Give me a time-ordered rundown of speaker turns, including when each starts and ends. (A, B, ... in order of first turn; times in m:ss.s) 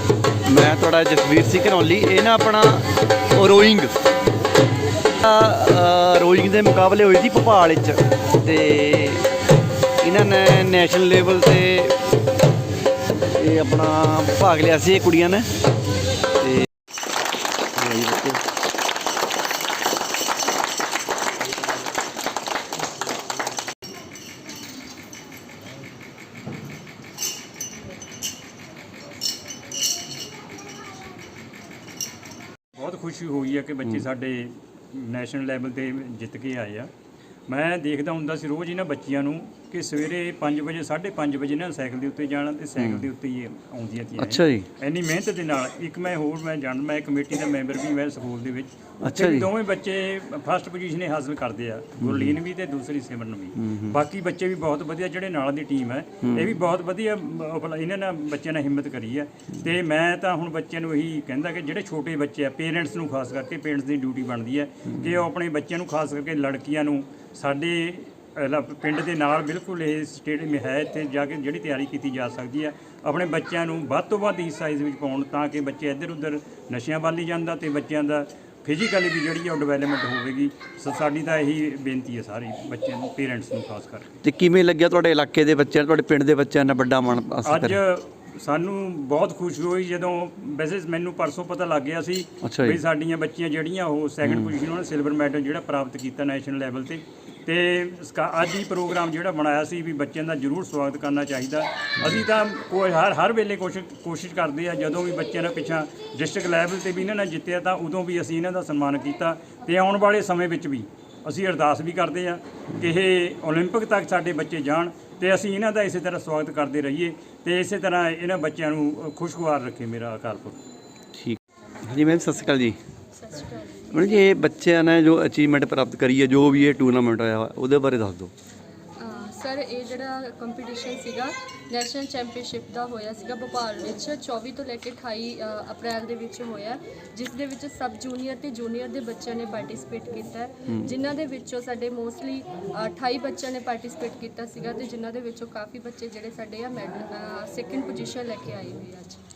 0:00.4-0:03.9 A
0:05.2-0:09.3 A
0:10.0-0:12.0 A
0:13.2-0:15.5 A
0:16.4-0:16.7 A
0:17.8-0:18.4 A
0:32.7-0:36.9 B
0:37.5-1:24.1 B
0:42.8-0:43.0 A
0:44.2-0:44.7 A
0:49.0-0:49.5 A
0:52.0-0:52.3 A
0:53.6-0:54.0 A
0:56.2-0:56.5 A
1:24.2-1:27.8 A
1:27.4-2:00.6 B
1:32.4-1:32.8 A
1:34.2-1:34.5 A
2:01.1-2:02.8 A
2:03.1-2:04.1 C
2:03.9-2:08.3 A
2:09.0-2:29.2 C